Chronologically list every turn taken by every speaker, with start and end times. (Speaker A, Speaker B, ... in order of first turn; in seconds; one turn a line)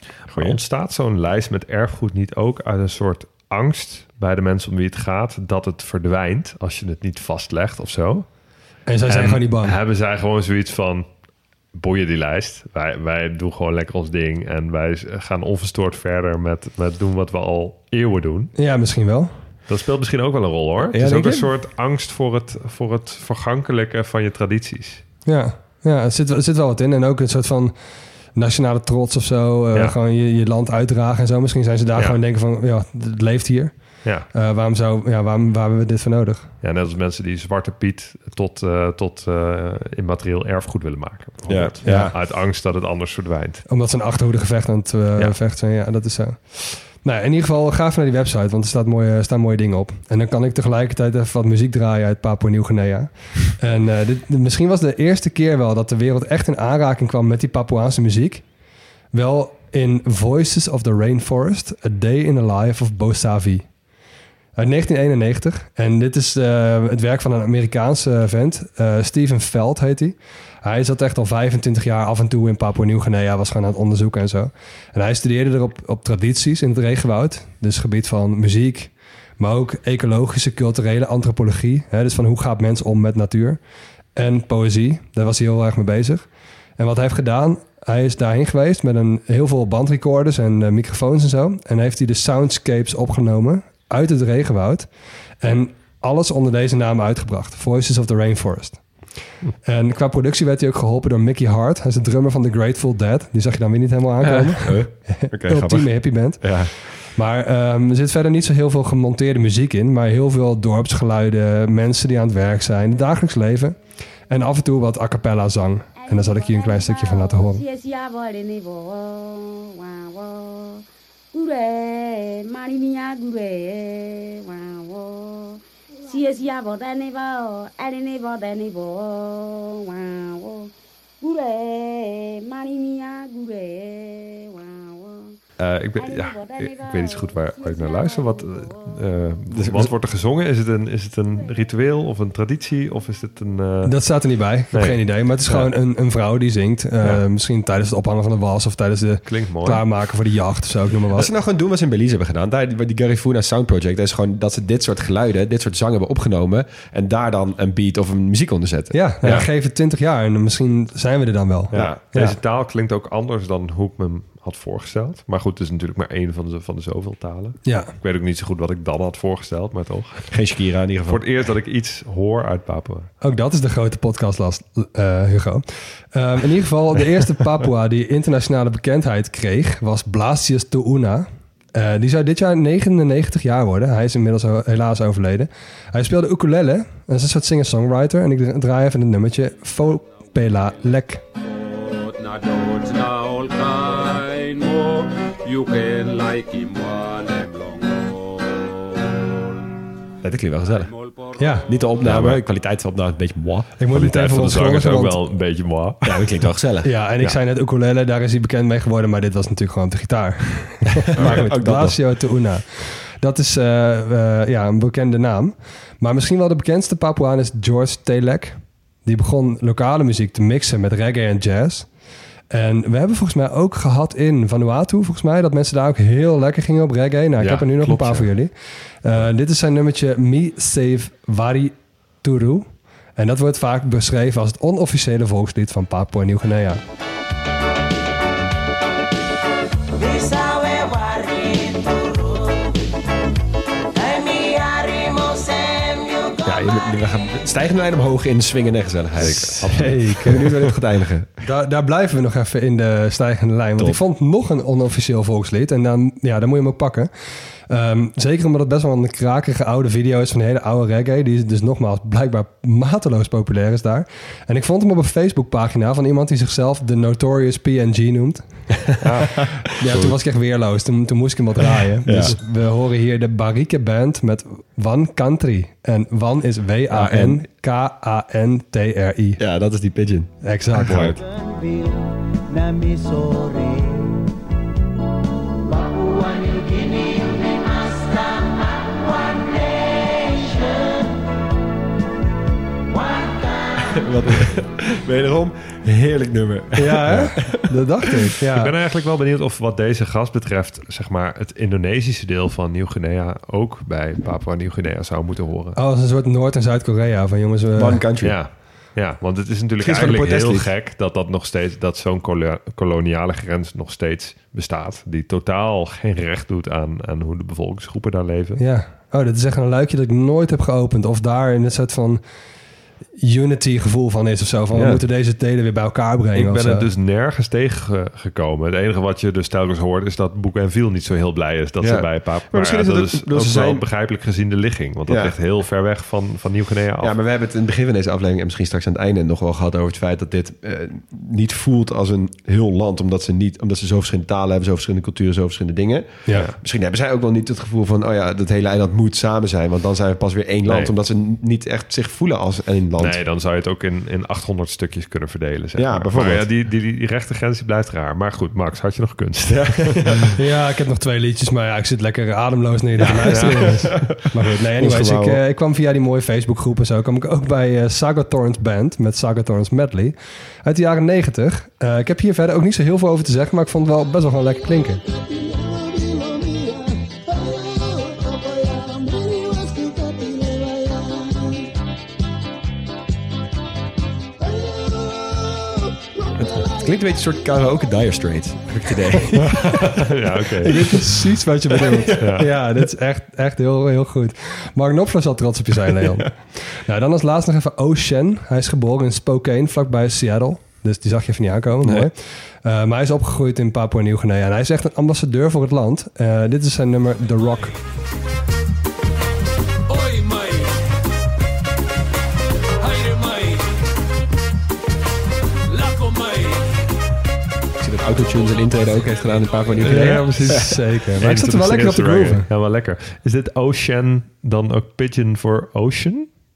Speaker A: 0.3-8.3
Speaker B: 0.3-0.6
Speaker C: 8.9-9.7
Speaker A: 9.1-11.1
Speaker A: 11.7-18.5
Speaker C: 18.6-19.3
Speaker A: 19.7-25.0
Speaker B: 20.8-21.5
Speaker C: 25.2-27.7
Speaker C: 28.4-33.7
Speaker C: 34.3-36.5
Speaker A: 36.6-43.6
Speaker B: 41.5-42.1
Speaker C: 41.8-42.1
Speaker C: 43.7-58.4
Speaker C: 59.1-63.7
Speaker C: 64.6-83.6
Speaker C: 84.2-86.2
Speaker C: 86.8-94.9
Speaker C: 95.4-98.8
Speaker C: 99.6-113.8
Speaker B: 104.2-106.8
Speaker C: 114.3-117.6
Speaker D: 116.0-135.3
Speaker A: 135.6-143.9
Speaker D: 135.9-139.4
Speaker B: 139.5-139.9
Speaker D: 141.4-141.7
Speaker C: 143.8-151.3
Speaker A: 144.7-145.7
Speaker A: 149.3-149.8
Speaker B: 151.1-159.5
Speaker C: 158.9-162.3
Speaker B: 161.7-162.3
Speaker A: 161.7-170.3
Speaker C: 167.7-167.9
Speaker B: 170.3-171.2
Speaker A: 171.1-173.1
Speaker C: 173.2-191.2
Speaker E: 191.4-199.2
Speaker B: 200.2-200.9
Speaker E: 200.7-201.8
Speaker C: 201.4-201.7
Speaker B: 201.7-203.7
Speaker A: 202.0-202.4
Speaker C: 203.8-205.2
Speaker A: 203.9-206.4
Speaker B: 206.0-206.9
Speaker C: 206.8-221.9
Speaker B: 211.0-212.0
Speaker A: 211.2-211.4
Speaker C: 222.5-236.8
Speaker A: 227.4-228.3
Speaker D: 239.9-242.8
Speaker D: 243.9-246.9
Speaker B: 246.4-251.4
Speaker A: 249.2-250.8
Speaker C: 249.7-250.4
Speaker C: 251.4-257.1
Speaker C: 257.7-268.4
Speaker A: 269.0-270.1
Speaker C: 269.8-279.4
Speaker B: 272.0-272.4
Speaker B: 276.9-277.4
Speaker B: 279.4-281.2
Speaker C: 280.4-281.2
Speaker A: 280.8-281.2
Speaker D: 281.4-281.9
Speaker D: 282.5-283.9
Speaker D: 285.6-291.1
Speaker D: 292.9-294.0
Speaker B: 293.9-297.8
Speaker C: 296.8-298.7
Speaker A: 298.5-305.8
Speaker C: 305.8-308.0
Speaker B: 307.8-308.4
Speaker A: 308.2-318.6
Speaker B: 309.8-310.7
Speaker C: 318.6-322.2
Speaker C: 323.2-326.9
Speaker B: 324.7-325.0
Speaker A: 326.3-337.1
Speaker B: 331.8-333.8
Speaker B: 335.1-335.4
Speaker B: 337.0-353.2
Speaker A: 350.7-350.9
Speaker A: 353.0-360.3
Speaker B: 355.8-356.4
Speaker B: 359.4-360.3
Speaker C: 360.4-375.0
Speaker B: 363.0-365.4
Speaker A: 363.0-363.9
Speaker B: 386.4-389.9
Speaker C: 389.2-390.0
Speaker A: 389.5-390.8
Speaker C: 390.6-407.8
Speaker B: 390.6-391.0
Speaker B: 391.7-392.4
Speaker A: 392.2-392.5
Speaker B: 395.9-396.2
Speaker B: 401.8-402.1
Speaker B: 417.8-420.8
Speaker A: 419.8-426.3
Speaker C: 419.9-422.4